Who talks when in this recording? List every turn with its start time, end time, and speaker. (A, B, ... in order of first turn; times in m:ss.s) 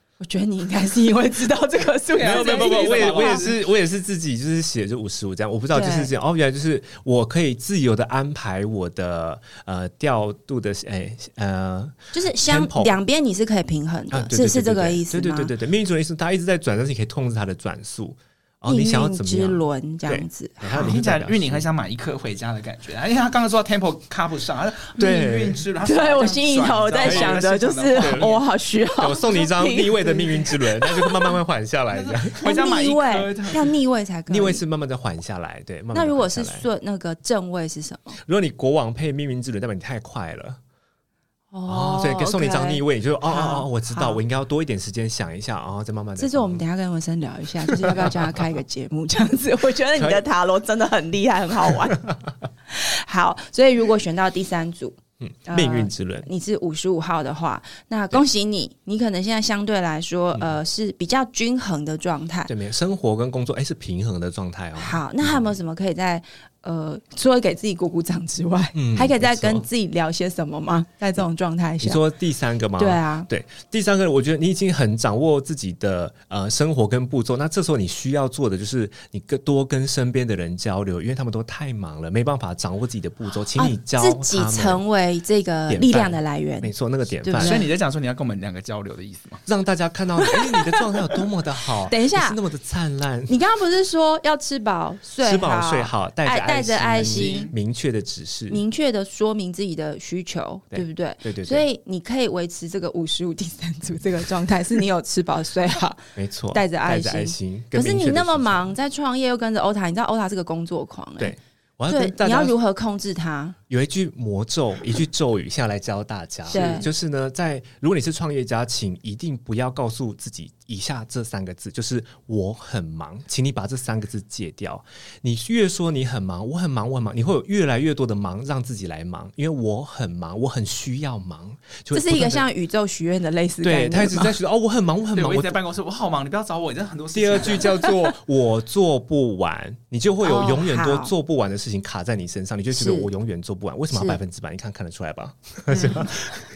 0:00.2-0:03.5 A
0:02.1-0:03.6 B
0:02.2-0:13.0 C
0:05.7-0:06.1 A
0:12.1-0:15.5 A
0:14.1-0:21.6 C
0:18.7-0:21.0 A
0:20.7-0:28.4 B
0:25.0-0:25.6 C
0:25.8-0:31.4 A
0:27.0-0:27.4 C
0:28.0-0:28.3 C
0:29.0-0:32.4 C
0:31.9-0:33.8 B
0:32.4-0:34.6 A
0:34.3-0:36.7 C
0:35.9-0:38.2 A
0:38.2-0:40.6 C
0:41.5-0:44.2 A
0:41.7-0:46.6 C
0:46.2-0:52.1 A
0:47.7-0:48.6 C
0:50.0-0:50.2 C
0:52.7-1:02.5 A
0:55.2-0:56.3 C
1:02.5-1:05.5 C
1:04.8-1:12.0 A
1:08.8-1:09.6 C
1:11.8-1:24.8 C
1:12.8-1:13.3 A
1:23.6-1:27.7 A
1:25.7-1:27.7 C
1:27.4-1:29.4 B
1:29.5-1:33.3 C
1:30.2-1:31.2 A
1:31.9-1:32.4 A
1:33.3-1:37.5 A
1:35.2-1:38.6 C
1:37.0-1:37.5 B
1:38.5-1:51.4 A
1:40.7-1:41.6 C
1:46.2-1:48.7 C
1:51.2-1:52.6 C
1:51.9-1:53.6 A
1:53.7-2:12.4 C
1:56.5-1:56.9 A
2:11.9-2:14.3 A
2:13.6-2:15.6 C
2:15.2-2:17.8 B
2:17.1-2:26.4 C
2:20.2-2:21.1 A
2:22.7-2:23.1 A
2:23.9-2:24.2 A
2:25.7-2:26.2 A